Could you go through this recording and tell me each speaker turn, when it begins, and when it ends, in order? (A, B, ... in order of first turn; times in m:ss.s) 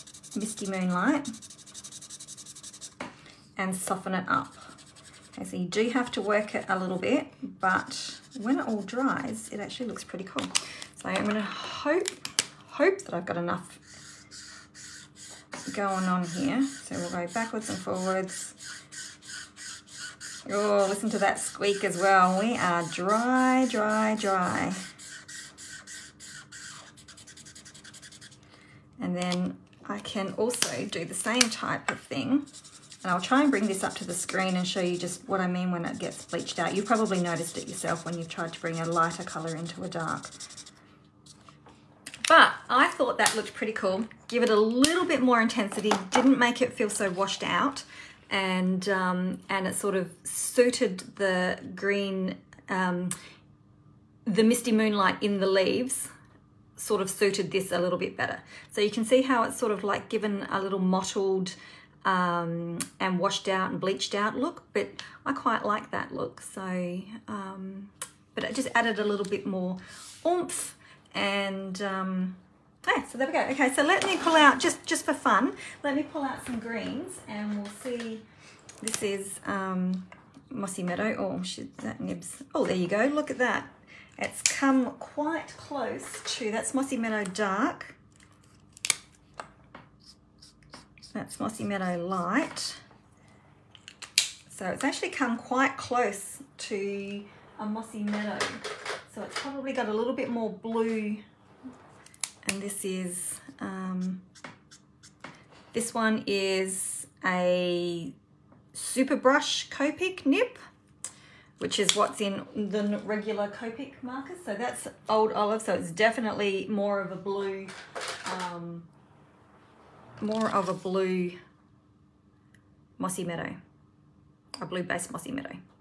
0:00.3-0:01.3 A
0:03.6-0:04.7 A
0:05.3-0:13.8 A
0:15.7-0:18.6 A
0:20.4-0:24.8 A
0:29.0-0:32.4 A
0:33.0-0:40.3 A
0:42.2-0:53.1 A
0:54.2-0:56.1 A
0:56.8-1:18.2 A
1:18.8-1:28.0 A
1:31.1-1:32.8 A
1:34.5-1:41.2 A
1:42.4-1:44.2 A
1:45.7-1:48.1 A
1:48.7-1:50.6 A
1:51.6-1:58.9 A
2:00.2-2:01.4 A
2:03.0-2:03.6 A
2:04.6-2:05.6 A